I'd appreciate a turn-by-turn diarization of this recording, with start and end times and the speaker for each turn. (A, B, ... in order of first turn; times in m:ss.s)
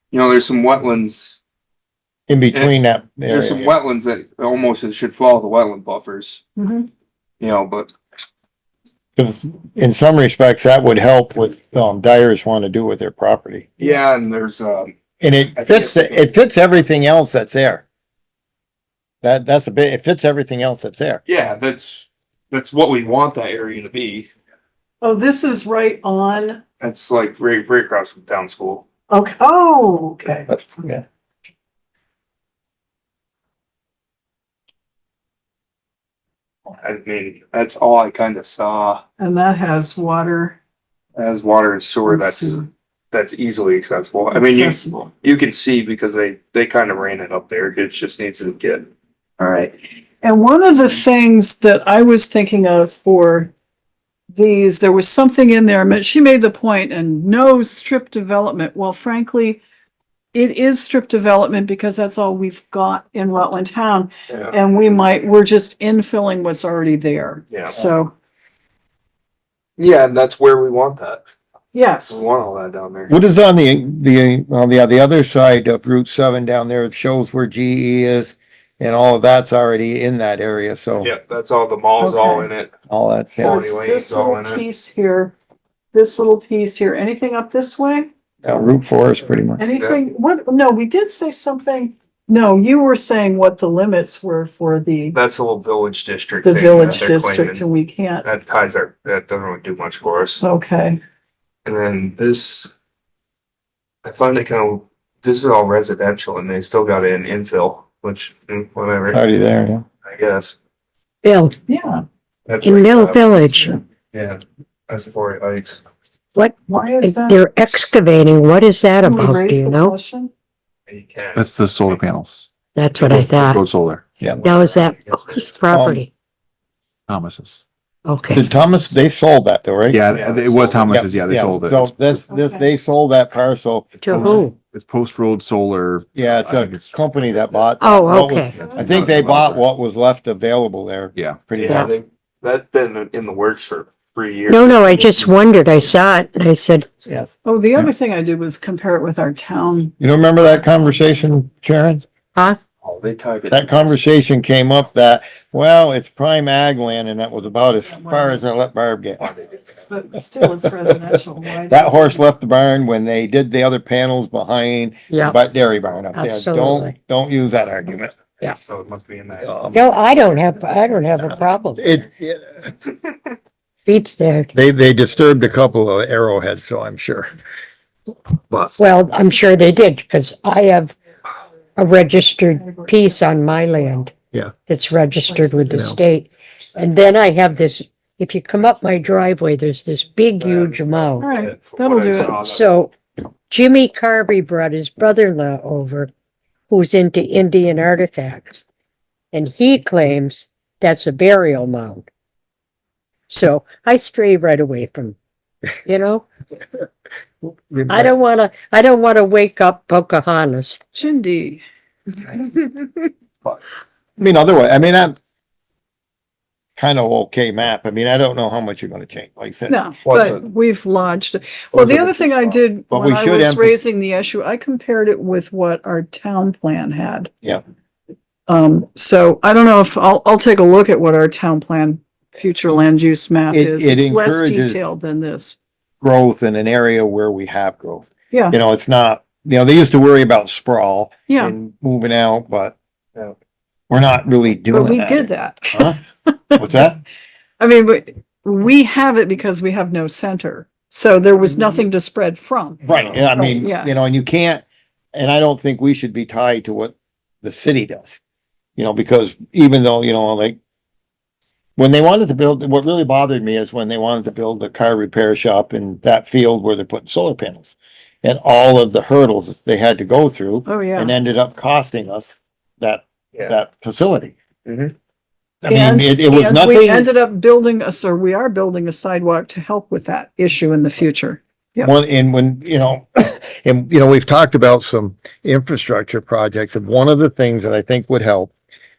0:00.1-0:01.4 A
0:02.3-0:03.7 B
0:03.3-0:06.4 A
0:06.6-0:06.9 C
0:07.4-0:07.9 A
0:09.2-0:13.7 B
0:13.8-0:14.9 A
0:15.2-0:17.8 B
0:15.5-0:16.4 A
0:19.2-0:21.2 B
0:21.2-0:24.3 A
0:25.0-0:26.6 C
0:26.8-0:28.8 A
0:29.1-0:30.5 C
0:30.5-0:31.0 B
0:36.8-0:39.0 A
0:39.2-0:40.6 C
0:41.2-0:48.9 A
0:42.1-0:42.7 C
0:44.3-0:45.1 C
0:49.4-0:53.5 C
0:54.3-0:59.6 C
1:00.3-1:08.1 C
1:04.3-1:04.6 A
1:07.5-1:07.9 A
1:09.8-1:11.2 A
1:11.7-1:12.2 C
1:12.1-1:13.1 A
1:13.1-1:21.1 B
1:21.0-1:22.7 A
1:22.0-1:22.5 C
1:22.9-1:23.5 B
1:23.3-1:24.6 A
1:23.4-1:25.3 C
1:25.9-1:28.1 C
1:28.4-1:29.7 B
1:29.6-1:35.2 C
1:29.7-1:30.0 A
1:35.1-1:37.6 A
1:36.4-1:38.3 C
1:38.2-1:40.4 A
1:40.4-1:41.0 C
1:41.6-1:42.7 A
1:44.0-1:49.2 A
1:49.1-1:49.8 B
1:50.0-1:50.6 A
1:51.2-1:51.6 D
1:51.7-1:52.0 C
1:52.5-1:53.4 A
1:52.6-1:53.8 D
1:53.5-1:53.8 C
1:54.1-1:55.8 A
1:56.3-1:59.9 D
1:56.7-1:57.4 C
1:59.0-2:00.3 C
2:00.9-2:02.0 A
2:01.3-2:04.0 E
2:02.7-2:03.6 D
2:04.3-2:05.5 A
2:04.4-2:06.1 D
2:05.7-2:06.0 B
2:07.1-2:07.6 E
2:08.0-2:08.4 D
2:08.3-2:10.0 B
2:09.9-2:12.2 E
2:10.1-2:11.0 A
2:10.9-2:14.4 B
2:12.3-2:12.7 C
2:14.0-2:14.5 D
2:14.0-2:17.0 E
2:16.1-2:21.9 B
2:17.8-2:18.6 D
2:18.5-2:19.6 E
2:18.6-2:18.9 C
2:21.1-2:21.5 E
2:21.5-2:25.9 A
2:24.5-2:26.9 D
2:27.4-2:29.9 C
2:30.0-2:32.0 B
2:32.8-2:34.0 A
2:33.5-2:39.3 B
2:37.8-2:38.4 C
2:39.2-2:39.7 A
2:39.8-2:42.3 C
2:40.4-2:41.1 B
2:41.7-2:48.2 B
2:45.1-2:45.4 D
2:46.1-2:46.9 D
2:48.4-2:49.8 A
2:49.4-2:49.8 B
2:49.7-2:52.0 D
2:51.8-2:52.7 B
2:53.8-2:54.5 D
2:54.5-2:57.3 B
2:58.8-3:00.9 D
3:01.8-3:04.1 D
3:02.5-3:04.1 C
3:04.6-3:11.3 D
3:05.3-3:05.9 C
3:05.7-3:06.0 B
3:10.4-3:12.8 A
3:11.2-3:12.4 C
3:12.4-3:12.9 D
3:13.5-3:16.1 D
3:16.7-3:18.6 D
3:19.3-3:22.1 D
3:23.3-3:25.2 D
3:25.8-3:26.2 D
3:27.4-3:28.1 B
3:27.9-3:30.8 D
3:30.9-3:31.6 C
3:34.2-3:35.2 B
3:36.8-3:39.8 B
3:39.7-3:47.3 C
3:40.0-3:40.4 A
3:41.7-3:42.1 B
3:42.9-3:43.8 B
3:48.5-3:55.6 C
3:53.5-3:54.9 B
3:56.0-4:02.8 B
3:58.3-3:58.6 C
4:01.3-4:01.5 C
4:03.9-4:06.0 B
4:04.7-4:06.0 C
4:06.6-4:07.0 B
4:07.6-4:12.8 C
4:12.8-4:18.2 B
4:12.9-4:13.2 A
4:13.3-4:13.9 C
4:18.8-4:20.6 B
4:21.8-4:34.3 B
4:30.6-4:31.1 C
4:34.6-4:34.9 A
4:35.6-4:37.1 B
4:35.6-4:41.9 C
4:41.8-4:48.5 B